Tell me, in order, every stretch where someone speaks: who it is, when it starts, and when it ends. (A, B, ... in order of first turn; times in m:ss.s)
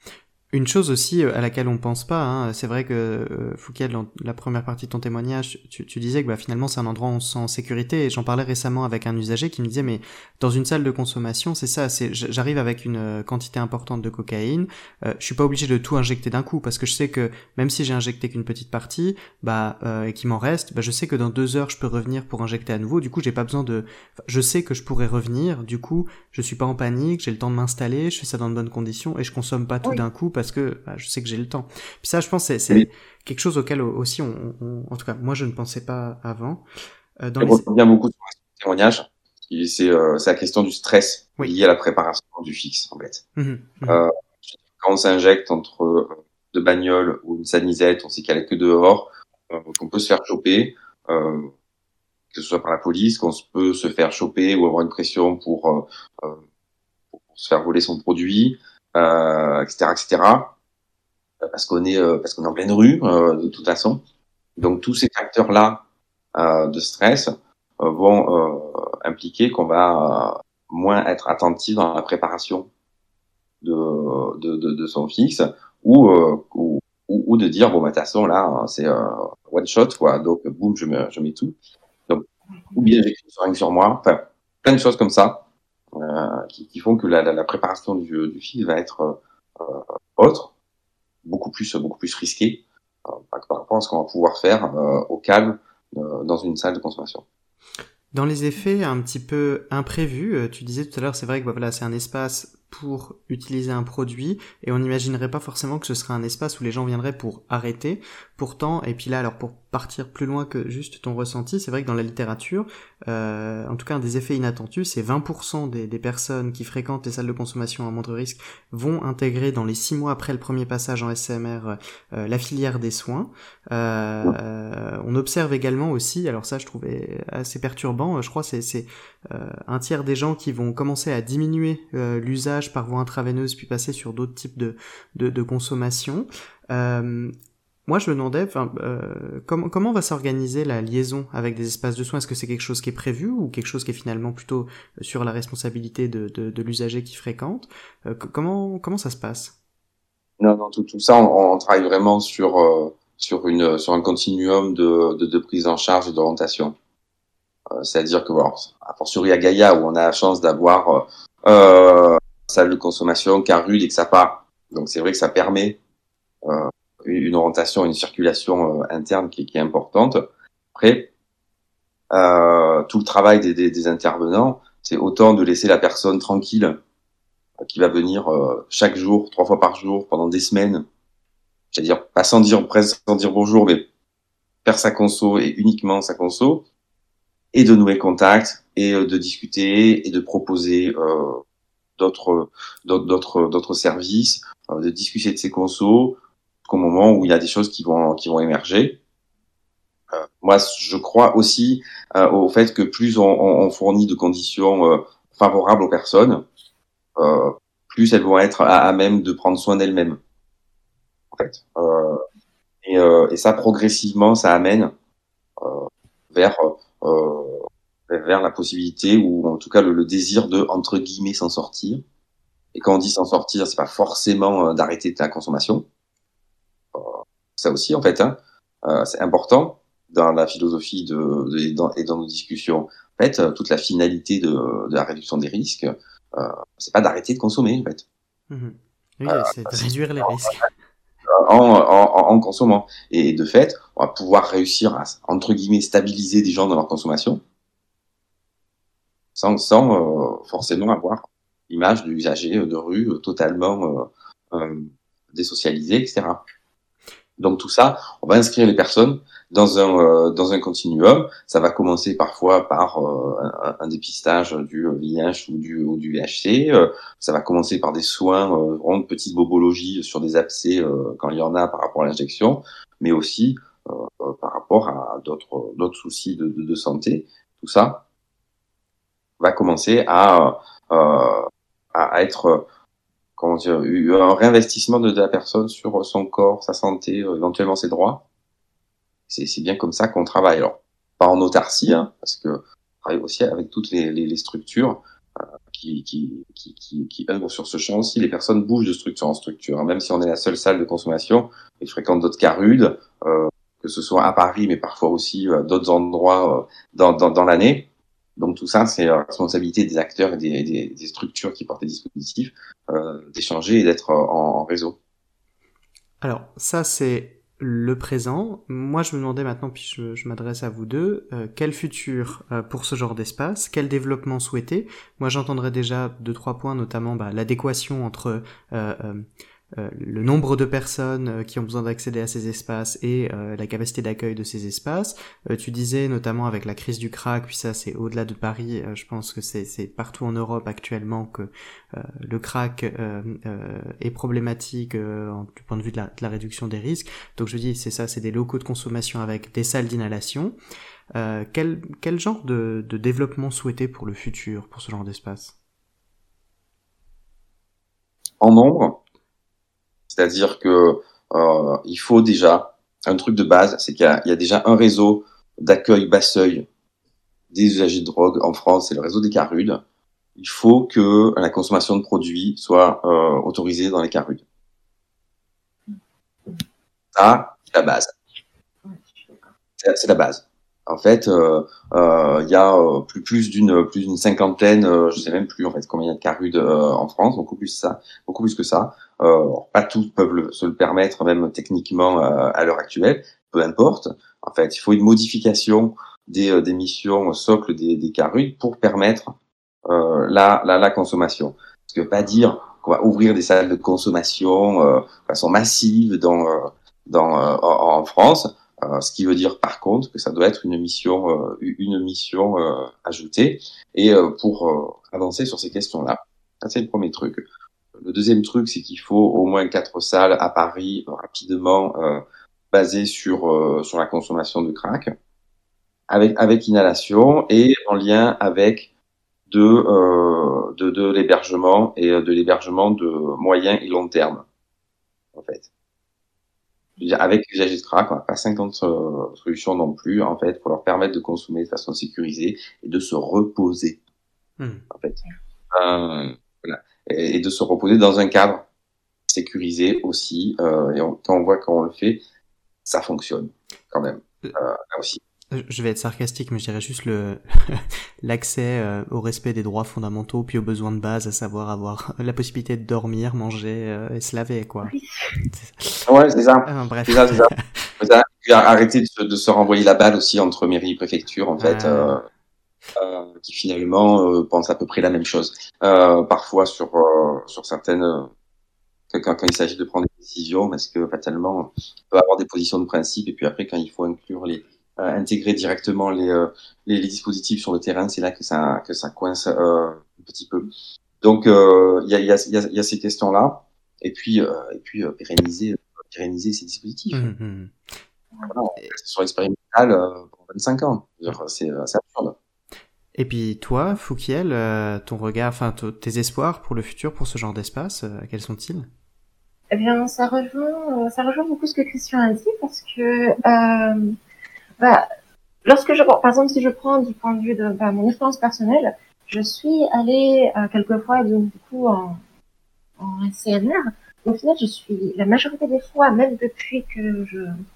0:00.5-0:36.6 A
0:37.2-0:37.6 A
0:37.4-0:43.2 B
0:43.4-0:44.0 A
0:43.9-0:51.5 B
0:52.3-0:56.4 B
0:57.1-1:00.5 B
1:01.4-1:04.0 B
1:04.6-1:05.8 B
1:06.4-1:12.7 B
1:13.6-1:21.6 B
1:22.1-1:30.5 B
1:31.2-1:37.2 B
1:38.1-2:17.3 A
2:17.9-2:29.6 A
2:30.4-2:36.8 B
2:37.7-2:45.8 B
2:46.4-2:50.2 B
2:50.7-2:51.1 B
2:52.1-2:56.8 B
2:57.6-3:00.8 B
3:01.7-3:03.9 B
3:04.6-3:06.6 B
3:07.5-3:11.4 B
3:12.0-3:19.0 B
3:20.1-3:26.4 B
3:27.2-3:30.2 B
3:31.3-3:32.2 B
3:32.8-3:34.9 B
3:35.6-3:42.0 B
3:42.8-3:45.9 B
3:46.9-3:58.0 B
3:58.5-4:00.7 A
3:59.3-4:00.6 B
4:01.3-4:07.4 B
4:09.4-4:16.4 B
4:17.4-4:38.0 B
4:39.4-4:42.7 B
4:43.4-4:48.2 B
4:49.3-5:15.0 B
5:16.2-5:50.6 A
5:51.2-5:55.5 A
5:58.4-5:59.0 B
6:00.1-6:06.7 B
6:07.5-6:09.8 B
6:10.4-6:14.4 B
6:15.9-6:16.6 C
6:17.2-6:18.1 B
6:18.8-6:19.5 C
6:19.8-6:39.3 B
6:39.9-6:57.4 B
6:58.0-7:05.1 B
7:06.1-7:08.9 B
7:09.5-7:14.4 B
7:15.4-7:15.7 B
7:17.0-7:24.0 B
7:24.6-7:24.8 A
7:24.9-7:25.2 B
7:25.7-7:28.6 B
7:29.3-7:32.2 B
7:32.8-7:35.2 B
7:35.5-7:44.9 A
7:44.8-7:45.5 C
7:45.5-7:46.1 A
7:46.1-7:52.2 B
7:46.7-7:47.9 A
7:51.6-7:52.2 A
7:53.0-7:58.3 B
7:59.1-8:10.7 B
8:11.2-8:17.3 B
8:17.1-8:17.8 A
8:18.5-8:22.4 B
8:23.2-8:28.9 A
8:29.7-8:34.2 C
8:34.8-8:35.1 C
8:35.6-8:42.2 C
8:43.0-8:47.6 C